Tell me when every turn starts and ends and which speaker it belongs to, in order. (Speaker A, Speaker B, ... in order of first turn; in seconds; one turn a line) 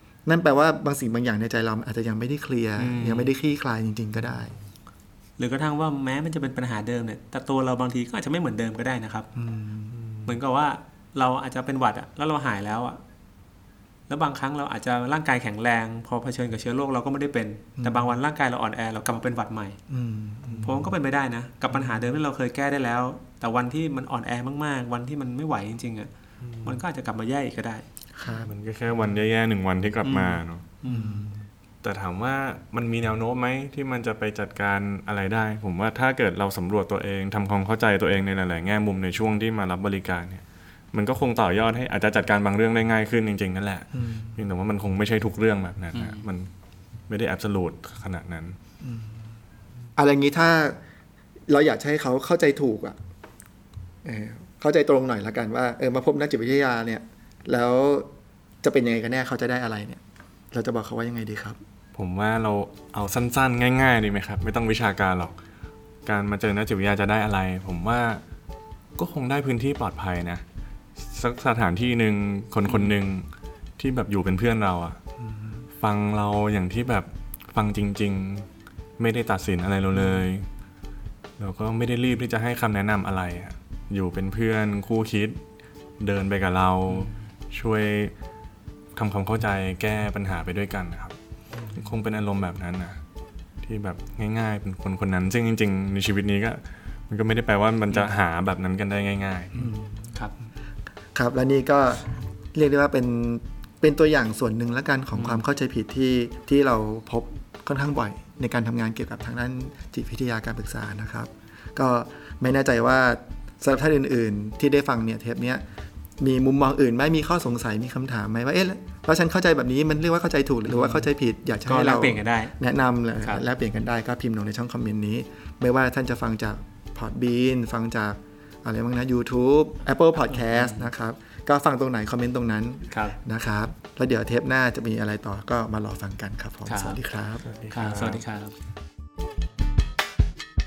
Speaker A: 0.2-4.6
Speaker B: 2.8-3.3
Speaker B: 5.4-9.3
Speaker A: 9.3-10.0
Speaker C: 10.0-10.3
Speaker B: 10.2-13.0
Speaker B: 14.1-19.8
Speaker A: 17.8-18.1
Speaker A: 19.9-20.9
Speaker B: 20.6-26.1
Speaker C: 26.4-26.8
Speaker B: 26.6-27.9
Speaker A: 28.2-28.5
Speaker C: 28.3-30.6
Speaker B: 30.0-31.2
Speaker A: 30.8-31.4
Speaker C: 31.8-46.5
Speaker A: 43.9-44.4
Speaker B: 45.9-46.2
Speaker C: 47.1-48.6
Speaker A: 48.8-49.3
Speaker A: 50.0-50.8
Speaker A: 51.5-53.0
Speaker A: 54.0-58.1
Speaker A: 58.6-60.0
Speaker A: 60.5-61.6
Speaker C: 61.9-65.3
Speaker C: 66.0-68.2
Speaker C: 69.0-70.4
Speaker C: 71.0-73.3
Speaker B: 72.7-72.9
Speaker C: 73.8-75.0
Speaker A: 75.2-75.7
Speaker C: 75.8-78.5
Speaker C: 79.0-80.5
Speaker C: 81.4-85.4
Speaker C: 86.0-88.1
Speaker C: 88.9-91.2
Speaker C: 91.7-93.0
Speaker C: 93.6-99.5
Speaker A: 99.5-100.1
Speaker A: 101.1-115.6
Speaker B: 105.1-105.4
Speaker A: 116.2-137.6
Speaker B: 120.7-121.0
Speaker B: 121.7-122.5
Speaker B: 130.3-130.9
Speaker B: 132.9-133.2
Speaker B: 136.7-137.0
Speaker C: 137.5-138.2
Speaker B: 137.7-138.5